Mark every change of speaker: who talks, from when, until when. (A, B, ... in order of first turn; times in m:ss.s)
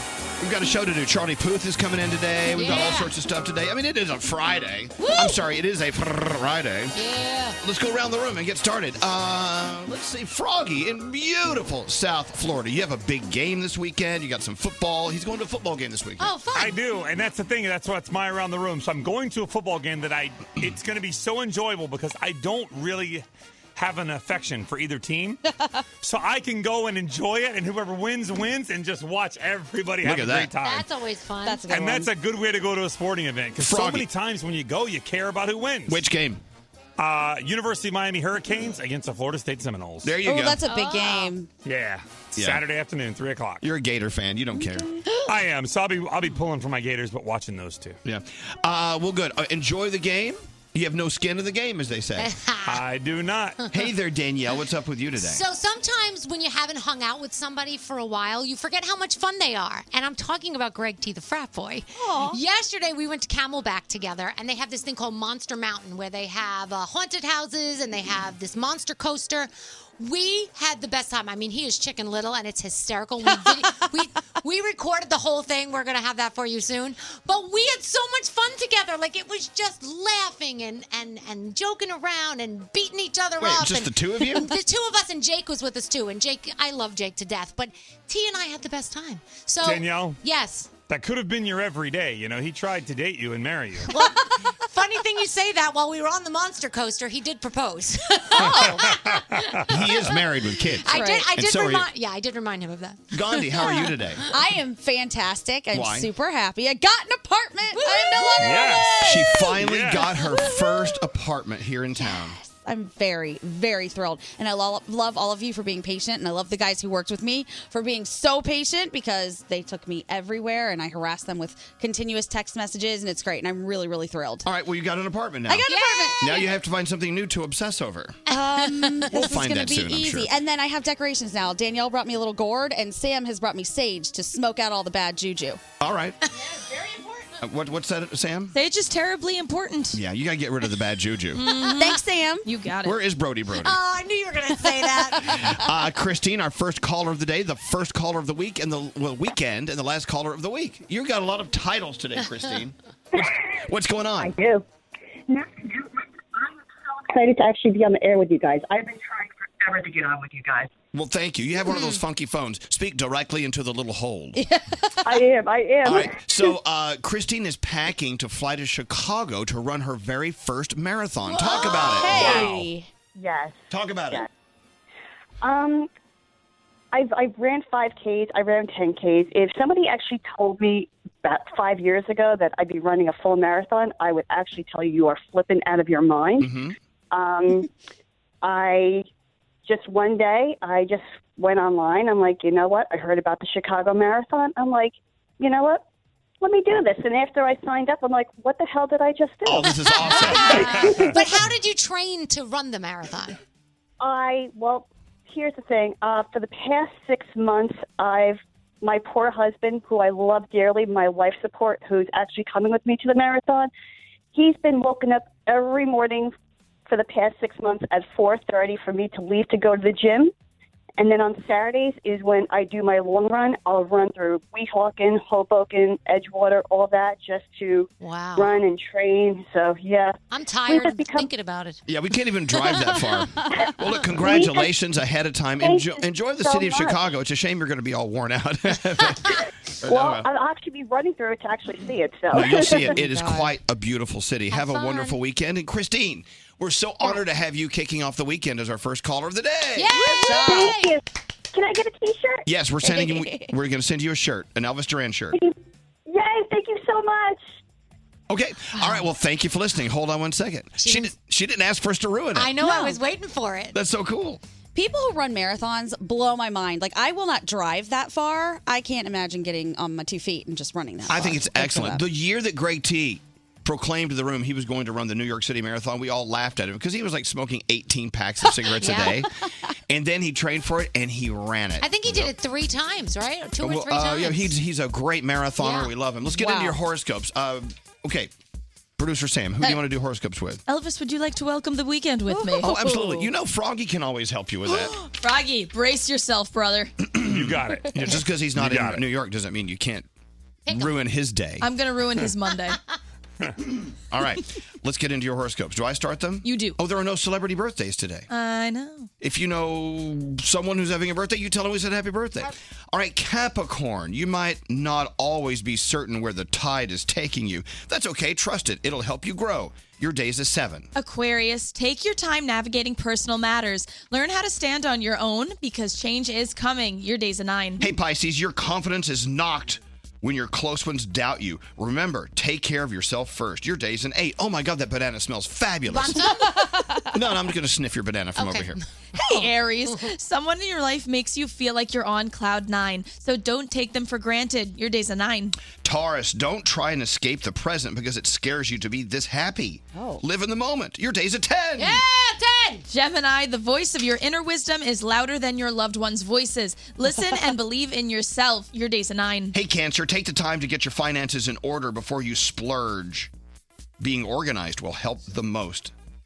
0:00.4-0:07.0 A
0:02.5-0:03.1 B
0:05.0-0:05.4 B
0:07.0-0:07.6 B
0:07.6-0:16.4 A
0:16.2-0:16.8 B
0:16.5-0:23.2 C
0:23.8-0:25.4 C
0:26.0-0:30.9 C
0:30.0-0:30.5 A
0:30.6-0:31.7 B
0:31.4-0:32.1 D
0:31.7-0:36.0 C
0:33.6-0:34.1 A
0:35.9-0:36.4 A
0:37.0-0:40.2 C
0:40.0-0:40.6 A
0:40.2-0:41.5 D
0:40.6-0:41.3 B
0:41.6-0:43.6 C
0:43.6-0:45.0 A
0:45.2-0:48.0 C
0:48.0-0:52.3 A
0:52.2-0:52.8 B
0:52.6-0:53.6 C
0:53.7-0:55.4 A
0:55.2-1:30.7 B
1:02.0-1:02.4 D
1:13.4-1:13.7 D
1:23.4-1:24.5 A
1:29.6-1:30.2 C
1:30.9-1:33.9 C
1:34.7-1:43.9 B
1:38.3-1:39.0 D
1:38.4-1:39.6 C
1:39.7-1:41.9 A
1:40.9-1:41.3 D
1:43.1-1:44.3 A
1:44.3-1:49.6 D
1:45.7-1:46.1 A
1:47.7-1:48.8 B
1:48.4-1:49.0 C
1:49.0-1:52.4 A
1:49.6-1:50.1 C
1:50.2-1:50.9 D
1:52.0-2:04.5 D
2:04.5-2:05.7 A
2:05.5-2:06.4 D
2:05.7-2:06.5 B
2:06.2-2:08.2 A
2:08.3-2:09.2 B
2:08.3-2:15.6 D
2:09.1-2:10.3 A
2:15.8-2:16.2 A
2:16.3-2:17.3 B
2:17.4-2:18.6 A
2:18.5-2:20.0 E
2:19.9-2:21.4 A
2:21.3-2:23.0 E
2:21.7-2:22.5 D
2:22.8-2:23.8 A
2:23.6-2:25.5 B
2:24.8-2:25.5 D
2:25.3-2:34.4 A
2:34.2-2:34.6 F
2:35.3-2:40.7 F
2:40.9-2:44.4 A
2:41.7-2:42.0 B
2:44.4-2:45.2 D
2:45.0-2:46.1 F
2:45.8-2:52.7 A
2:51.3-2:52.4 B
2:51.6-2:52.9 D
2:53.2-2:53.6 F
2:53.7-2:54.3 A
2:55.4-2:55.9 F
2:56.9-3:06.5 F
3:06.4-3:06.8 A
3:07.1-3:07.7 F
3:08.4-3:09.1 F
3:09.6-3:15.8 F
3:16.4-3:19.7 F
3:19.4-3:21.1 A
3:20.0-3:23.4 B
3:20.6-3:21.2 F
3:24.0-3:33.7 F
3:34.3-3:36.3 F
3:36.9-3:40.3 F
3:41.0-3:51.3 F
3:48.0-3:48.6 B
3:50.3-3:51.8 B
3:51.9-4:00.3 A
3:54.2-3:54.7 F
3:55.6-3:57.0 F
3:59.9-4:02.9 F
4:02.3-4:10.0 A
4:02.5-4:03.6 D
4:04.5-4:05.2 B
4:09.8-4:11.0 B
4:10.1-4:10.8 D
4:10.1-4:11.0 F
4:11.5-4:12.5 F
4:12.5-4:15.4 A
4:12.8-4:13.6 D
4:16.1-4:17.4 F
4:18.3-4:22.6 A
4:20.8-4:21.1 B
4:22.3-4:23.8 B
4:22.6-4:23.0 D
4:23.7-4:24.4 A
4:24.8-4:32.0 D
4:31.1-4:39.3 A
4:38.8-4:39.3 B
4:39.9-4:42.3 A
4:41.8-4:44.6 B
4:43.6-4:48.3 A
4:45.6-4:45.9 B
4:46.2-4:46.8 D
4:49.0-4:50.6 A
4:50.7-4:52.7 E
4:52.3-4:53.3 D
4:52.6-4:54.9 A
4:55.0-4:56.9 E
4:57.1-5:00.1 A
4:57.2-4:59.0 C
5:00.7-5:00.9 B
5:00.7-5:01.7 A
5:01.6-5:02.8 E
5:04.1-5:08.3 A
5:06.4-5:06.8 E
5:08.3-5:09.1 E
5:09.2-5:20.9 A
5:21.0-5:27.8 E
5:27.8-5:36.3 A
5:35.9-5:36.7 B
5:36.5-5:37.0 D
5:37.1-5:38.8 A
5:38.4-5:38.8 B
5:39.2-5:45.6 E
5:45.8-5:52.0 A
5:49.9-5:50.2 D
5:51.8-5:52.9 B
5:52.9-5:59.6 E
5:59.5-6:03.3 A
6:04.0-6:05.9 A